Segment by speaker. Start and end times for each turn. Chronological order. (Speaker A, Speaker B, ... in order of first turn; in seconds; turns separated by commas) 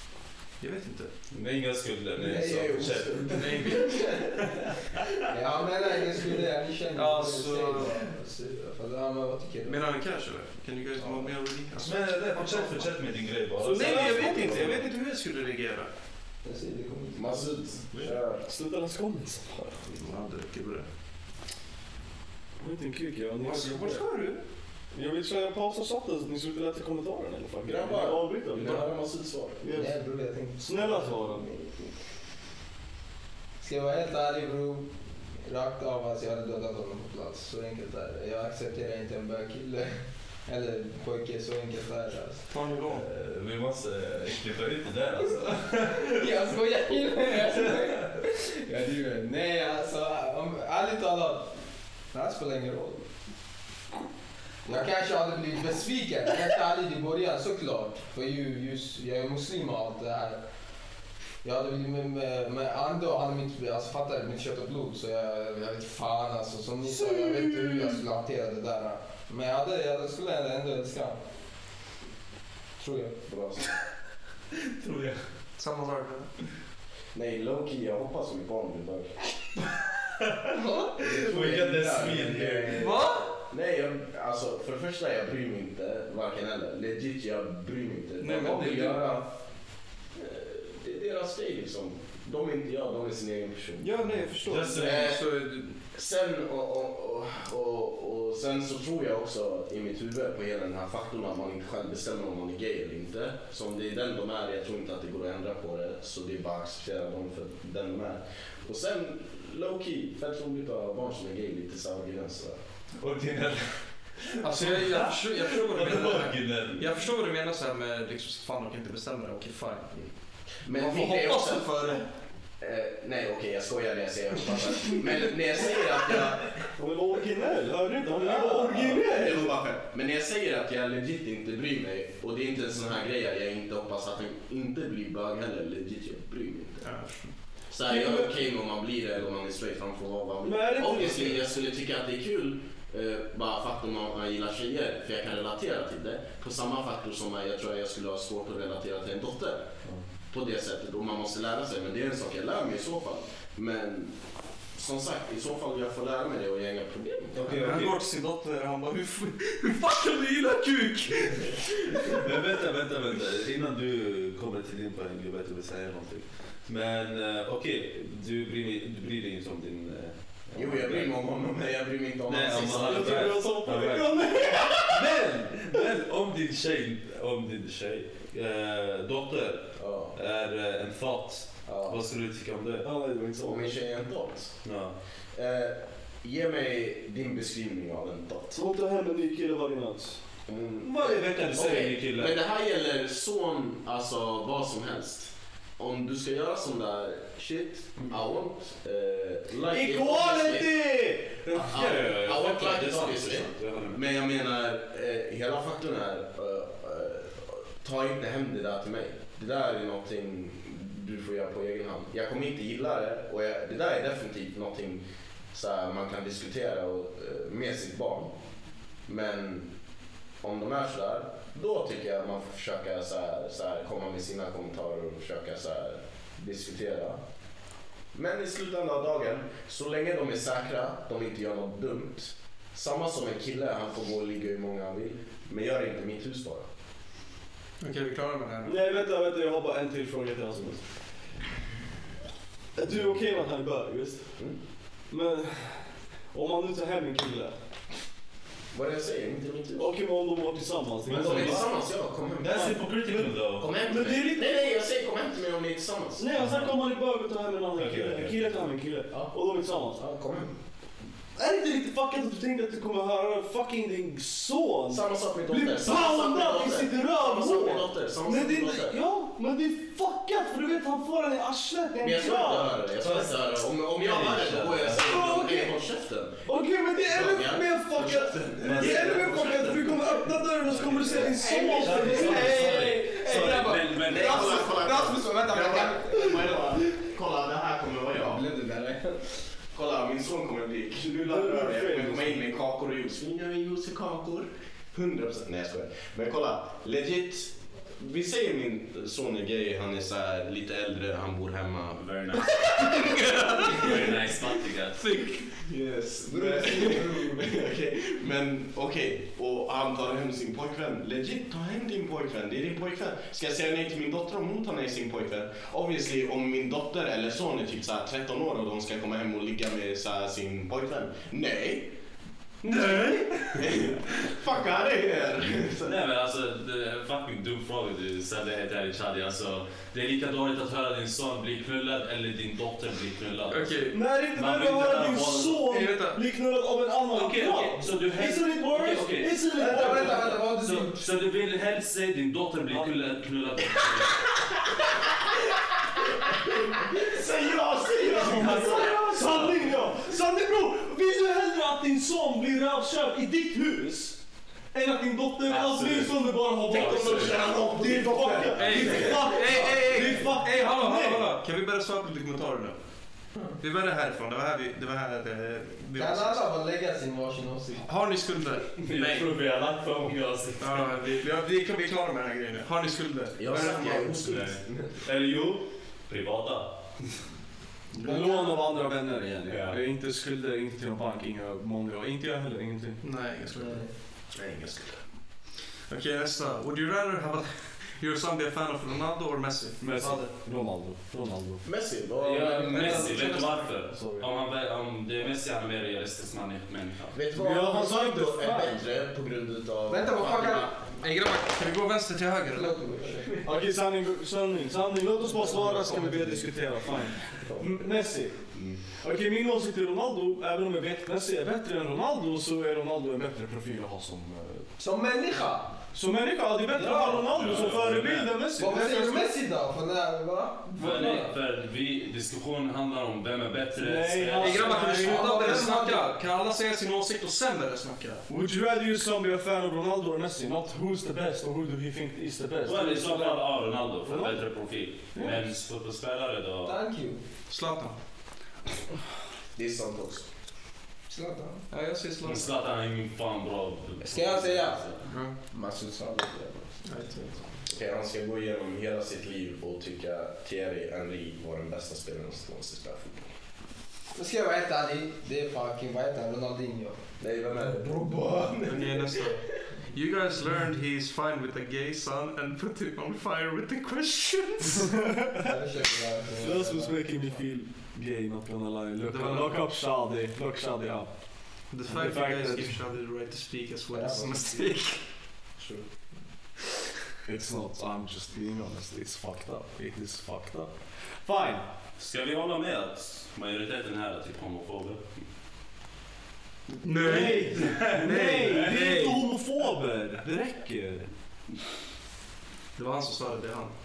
Speaker A: 0.6-1.1, Speaker B: 1.3-3.7, Speaker C: 2.2-4.3, Speaker D: 2.4-4.1, Speaker A: 3.3-4.1, Speaker B: 4.4-5.2, Speaker C: 5.3-9.8, Speaker A: 7.0-8.1, Speaker A: 9.7-12.9, Speaker B: 11.8-14.7, Speaker E: 13.6-14.8, Speaker A: 13.6-15.9, Speaker C: 16.4-18.1, Speaker D: 17.1-18.5, Speaker E: 18.5-19.7, Speaker A: 19.6-20.9, Speaker E: 22.6-24.0, Speaker A: 23.4-24.4, Speaker E: 24.9-28.9, Speaker D: 27.6-29.6, Speaker E: 29.6-30.0, Speaker C: 29.7-31.2, Speaker E: 30.6-31.4, Speaker D: 31.4-31.9, Speaker C: 33.6-42.5, Speaker A: 42.5-43.1, Speaker B: 42.9-46.5, Speaker C: 45.9-51.5, Speaker B: 47.5-47.8, Speaker C: 52.1-53.1, Speaker C: 54.7-60.4, Speaker C: 61.4-71.2, Speaker C: 72.8-73.2, Speaker D: 73.3-73.7, Speaker B: 74.7-75.2, Speaker A: 75.6-76.3, Speaker D: 77.1-79.2, Speaker C: 80.5-82.5, Speaker D: 81.0-83.0, Speaker B: 81.0-83.1, Speaker A: 82.7-83.3, Speaker D: 83.5-89.3, Speaker A: 88.2-89.1, Speaker D: 90.1-94.0, Speaker A: 93.8-95.7, Speaker B: 94.4-95.2, Speaker D: 94.7-95.3, Speaker D: 95.9-112.6, Speaker B: 113.0-116.9, Speaker A: 114.4-119.9, Speaker D: 120.6-121.7, Speaker A: 120.7-122.1, Speaker D: 122.6-126.6, Speaker E: 126.7-129.5, Speaker D: 128.2-136.9, Speaker A: 136.8-137.3, Speaker D: 137.7-149.7, Speaker E: 137.8-138.4, Speaker E: 140.4-141.4, Speaker D: 150.3-154.2, Speaker D: 154.7-157.6, Speaker B: 157.3-158.0, Speaker A: 157.5-162.2, Speaker B: 162.1-171.1, Speaker D: 170.6-173.4, Speaker B: 172.3-182.9, Speaker E: 172.7-175.1, Speaker D: 179.8-180.2, Speaker D: 181.7-182.0, Speaker E: 182.8-183.8, Speaker D: 183.4-184.6, Speaker B: 184.6-184.9, Speaker D: 185.3-188.6, Speaker E: 188.6-190.2, Speaker D: 190.5-200.8, Speaker B: 190.8-192.4, Speaker E: 199.7-202.1, Speaker B: 201.5-204.0, Speaker D: 201.7-218.3, Speaker D: 219.1-219.7, Speaker D: 220.4-227.2, Speaker D: 228.1-236.7, Speaker A: 237.8-238.8, Speaker E: 238.6-240.8, Speaker E: 242.8-244.3, Speaker E: 245.1-247.6, Speaker D: 248.7-249.9, Speaker E: 249.8-251.6, Speaker B: 251.1-251.7, Speaker D: 251.1-252.9, Speaker B: 252.4-253.7, Speaker D: 253.6-256.2, Speaker E: 253.8-254.8, Speaker E: 256.2-260.0, Speaker B: 256.4-256.8, Speaker B: 257.8-258.5, Speaker D: 259.1-260.6, Speaker E: 261.4-272.9, Speaker D: 264.9-269.0, Speaker D: 272.0-280.1, Speaker B: 273.0-273.3, Speaker B: 273.9-275.2, Speaker E: 275.0-275.7, Speaker E: 276.5-282.9, Speaker B: 278.6-279.7, Speaker B: 280.7-285.0, Speaker C: 281.3-286.8, Speaker D: 284.0-288.4, Speaker A: 284.3-285.8, Speaker C: 288.1-289.3, Speaker D: 289.7-302.4, Speaker E: 291.2-292.4, Speaker B: 301.9-303.1, Speaker A: 302.6-305.5, Speaker B: 303.6-305.0, Speaker D: 305.6-321.9, Speaker C: 306.3-307.6, Speaker A: 322.6-323.7, Speaker B: 322.7-323.0, Speaker D: 323.6-325.9, Speaker A: 324.4-325.6, Speaker B: 325.8-335.7, Speaker A: 333.5-334.0, Speaker E: 333.9-340.3, Speaker A: 335.6-336.2, Speaker B: 337.1-344.4, Speaker C: 339.5-341.1, Speaker D: 346.9-348.9, Speaker E: 348.1-354.2, Speaker B: 348.1-349.6, Speaker E: 354.7-361.3, Speaker B: 355.5-357.5, Speaker D: 356.7-359.6, Speaker A: 358.6-362.8, Speaker A: 363.6-366.5, Speaker C: 365.9-367.9, Speaker A: 367.8-369.3, Speaker B: 368.8-370.9, Speaker A: 370.6-374.4, Speaker D: 373.4-374.9, Speaker B: 374.2-376.8, Speaker E: 377.9-383.0, Speaker C: 378.0-378.7, Speaker B: 379.5-379.8, Speaker A: 383.0-383.9, Speaker C: 383.6-383.9, Speaker D: 384.3-385.0, Speaker A: 385.9-390.2, Speaker E: 389.8-391.6, Speaker D: 391.6-393.1, Speaker B: 392.2-397.2, Speaker A: 392.7-393.7, Speaker E: 393.9-394.3, Speaker D: 397.1-400.9, Speaker E: 397.3-398.8, Speaker C: 399.9-401.3, Speaker A: 400.9-402.8, Speaker C: 402.5-403.5, Speaker E: 403.4-408.4, Speaker C: 405.3-406.5, Speaker D: 408.5-408.8, Speaker E: 409.0-414.6, Speaker C: 414.8-415.8, Speaker E: 415.9-419.3, Speaker C: 416.7-417.7, Speaker B: 417.3-418.4, Speaker C: 418.5-421.3, Speaker B: 420.8-425.0, Speaker E: 423.8-425.7, Speaker A: 424.4-428.2, Speaker C: 424.9-426.1, Speaker E: 428.3-434.4, Speaker B: 432.6-436.8, Speaker C: 436.6-437.2, Speaker A: 437.5-438.0, Speaker D: 439.6-440.3, Speaker C: 441.1-441.7, Speaker A: 441.7-442.5, Speaker B: 442.2-445.0, Speaker C: 444.0-446.8, Speaker A: 446.9-447.4, Speaker D: 447.7-453.3, Speaker C: 454.1-457.0, Speaker D: 457.2-459.4, Speaker A: 458.7-464.9, Speaker E: 465.0-465.5, Speaker C: 465.3-467.2, Speaker E: 466.4-472.8, Speaker A: 469.0-469.6, Speaker A: 471.7-475.0, Speaker C: 473.9-474.8, Speaker E: 477.2-481.6, Speaker B: 482.0-485.1, Speaker A: 486.8-488.9, Speaker E: 486.9-491.1, Speaker B: 487.2-489.2, Speaker A: 492.8-493.7